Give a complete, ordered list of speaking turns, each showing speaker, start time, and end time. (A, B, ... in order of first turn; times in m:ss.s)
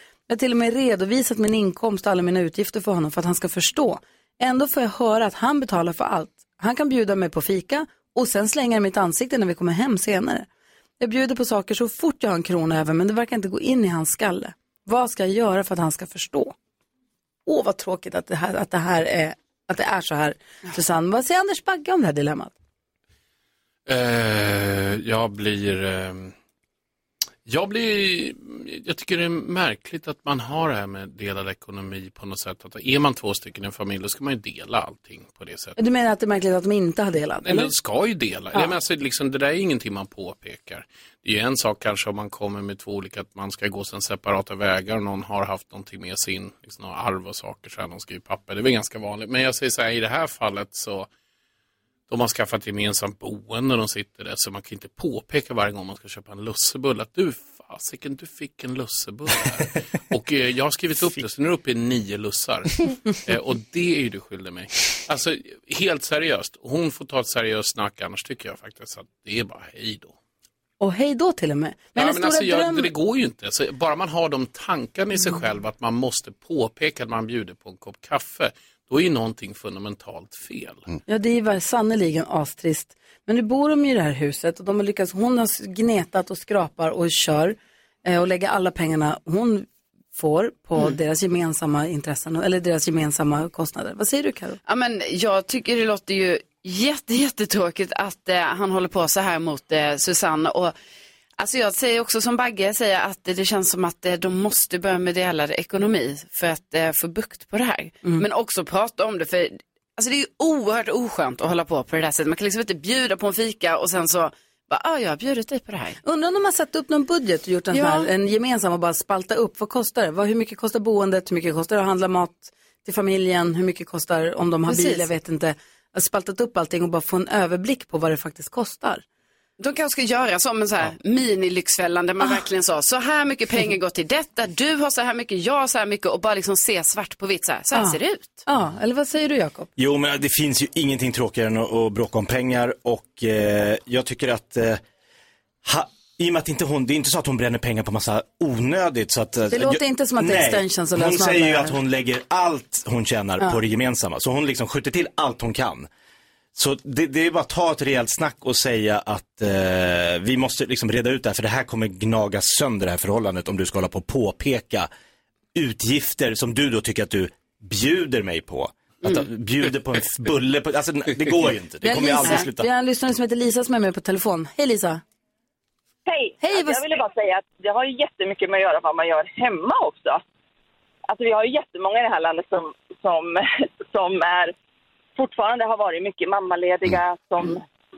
0:00.3-0:10.5 A
0:11.0-0:16.5 A
0:17.4-0:22.5 A
0:23.9-0:26.3 B
0:27.4-0:35.8 B
0:35.8-0:37.7 A
0:37.4-0:51.1 B
0:52.1-1:10.1 B
1:10.8-1:12.9 A
1:12.0-1:20.9 B
1:21.1-1:34.6 A
1:34.7-1:40.7 C
1:41.4-1:56.0 C
1:56.0-2:09.0 A
1:57.7-1:58.1 C
2:04.7-2:05.1 C
2:09.6-2:18.4 C
2:17.7-2:19.7 A
2:19.8-2:24.8 D
2:25.6-2:35.9 D
2:29.5-2:31.8 A
2:36.6-2:44.9 D
2:45.6-2:52.7 D
2:51.8-2:55.0 A
2:56.1-3:00.2 E
2:56.4-2:56.9 A
3:01.1-3:04.5 E
3:05.2-3:07.6 E